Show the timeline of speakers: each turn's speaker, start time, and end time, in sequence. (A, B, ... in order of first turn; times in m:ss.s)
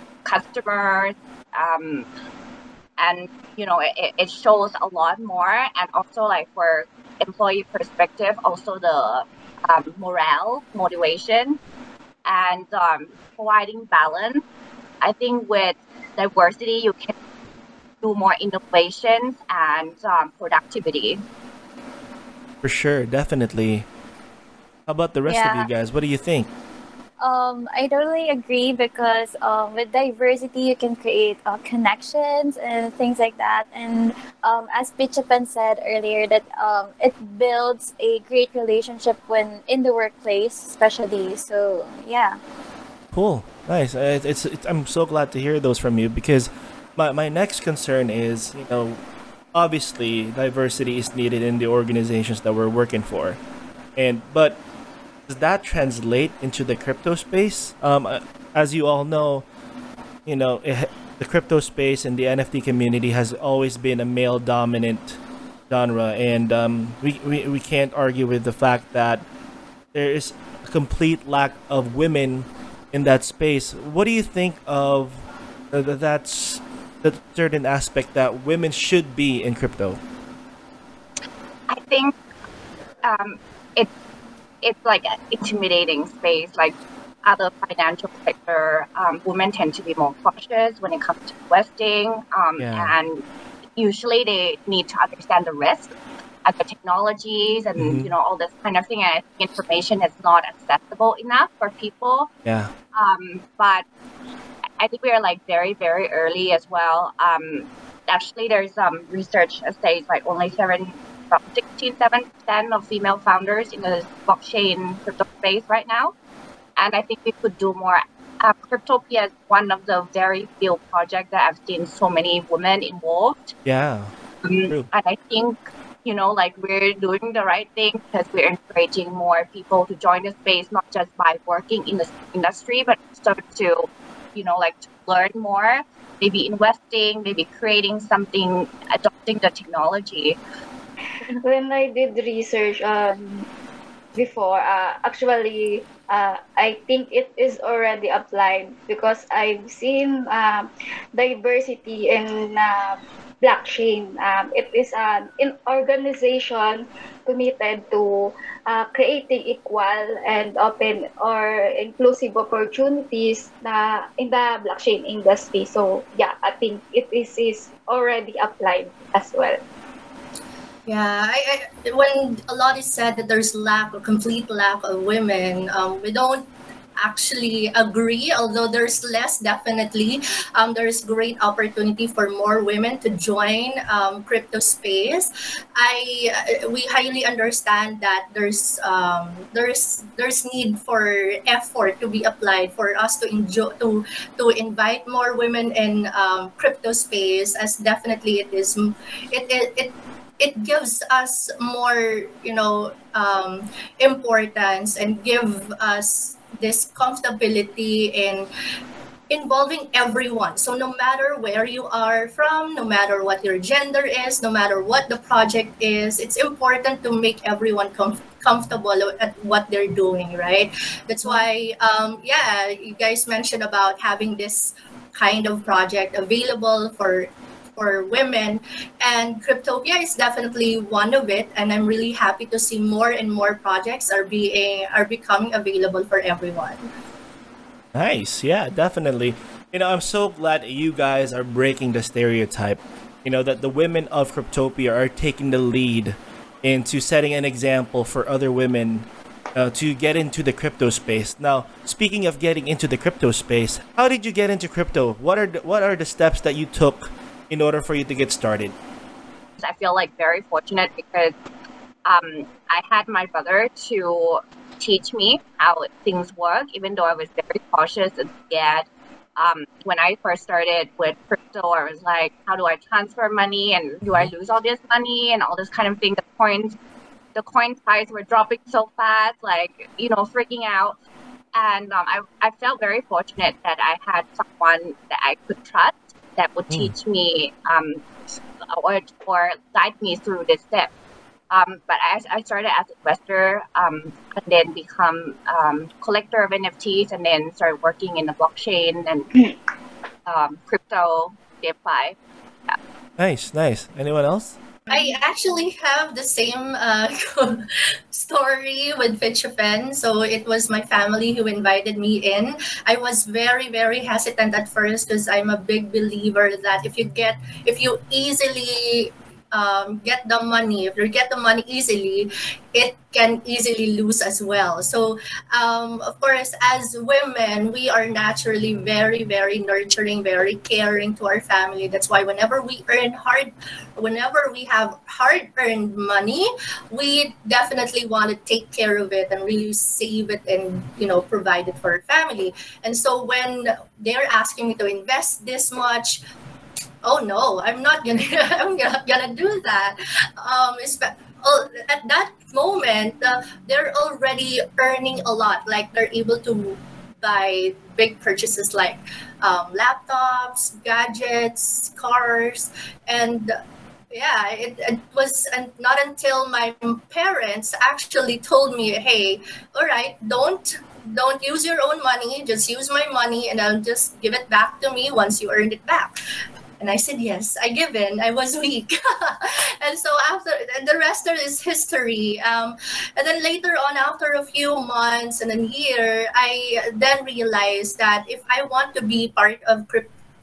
0:00.2-0:02.0 A
0:03.0-0:11.6 A
0:12.2-0:14.4 A
0:15.0-0:17.1 A
0:18.0-0:21.2 A
0:22.6-0:23.9 B
0:24.9-0:26.5 B
0:25.3-0:25.7 C
0:27.2-0:42.4 C
0:43.1-0:49.0 B
0:49.5-0:53.4 B
0:54.0-0:54.6 B
0:55.3-0:59.4 B
1:00.2-1:09.2 B
1:09.9-1:20.0 B
1:21.7-1:22.1 A
1:23.0-1:23.9 A
1:24.6-1:33.2 A
1:32.6-1:33.0 B
1:33.8-1:35.9 A
1:36.4-1:42.3 A
1:37.8-1:38.1 B
1:42.4-1:42.7 B
1:42.9-1:43.8 A
1:44.8-1:56.1 A
1:56.8-2:03.5 A
2:03.6-2:04.1 B
2:04.4-2:20.4 A
2:21.4-2:23.4 D
2:24.1-2:49.6 D
2:50.8-2:56.5 E
2:57.0-3:28.5 E
3:29.3-3:56.8 E
3:57.9-4:18.7 B
4:19.6-4:21.3 A
4:22.0-4:36.8 A
4:37.3-4:41.0 A
4:41.5-4:48.0 A
4:48.7-4:50.9 A
4:51.5-4:59.3 A
5:00.2-5:02.2 A
5:03.2-5:04.6 B
5:04.9-5:46.2 E
5:47.0-6:03.5 E
6:04.1-6:16.1 E
6:16.8-6:30.1 E